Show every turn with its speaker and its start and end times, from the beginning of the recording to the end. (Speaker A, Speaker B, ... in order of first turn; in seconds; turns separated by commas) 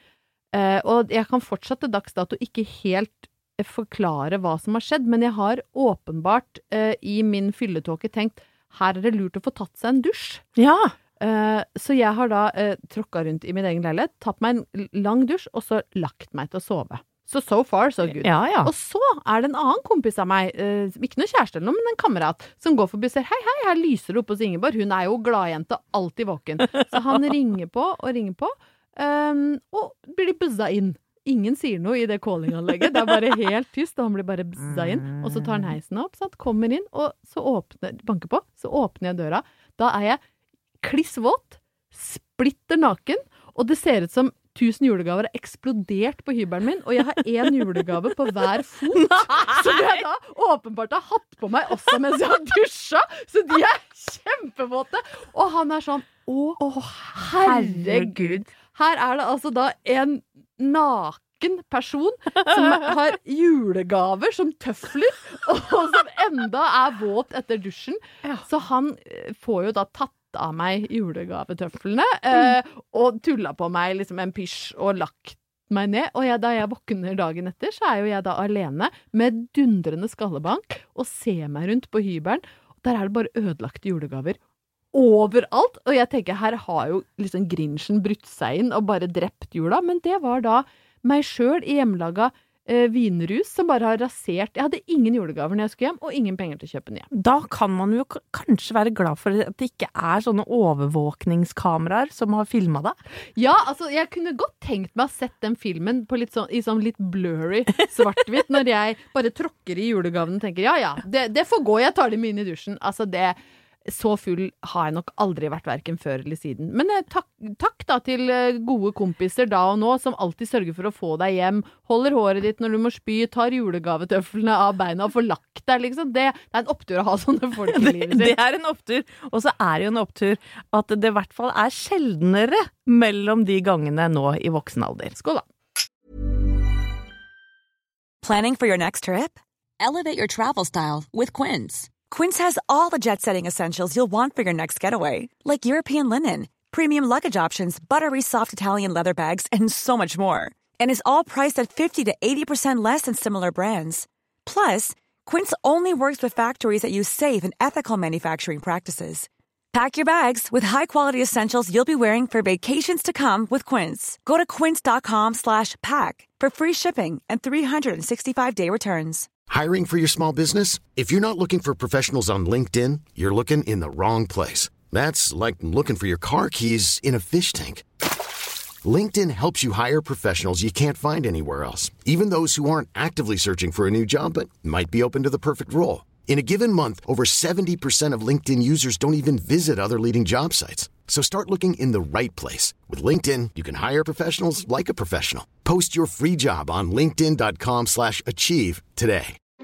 Speaker A: 0.5-10.4, Speaker B: 10.6-10.9, Speaker A: 11.2-40.2, Speaker B: 18.2-18.7, Speaker A: 40.8-56.6, Speaker B: 49.0-50.0, Speaker B: 56.6-58.5, Speaker A: 57.1-84.4, Speaker A: 84.9-97.1, Speaker B: 97.1-103.0, Speaker A: 103.3-128.4, Speaker B: 127.7-135.2, Speaker A: 135.2-135.4, Speaker C: 138.2-169.3, Speaker D: 169.5-177.8, Speaker D: 178.8-199.4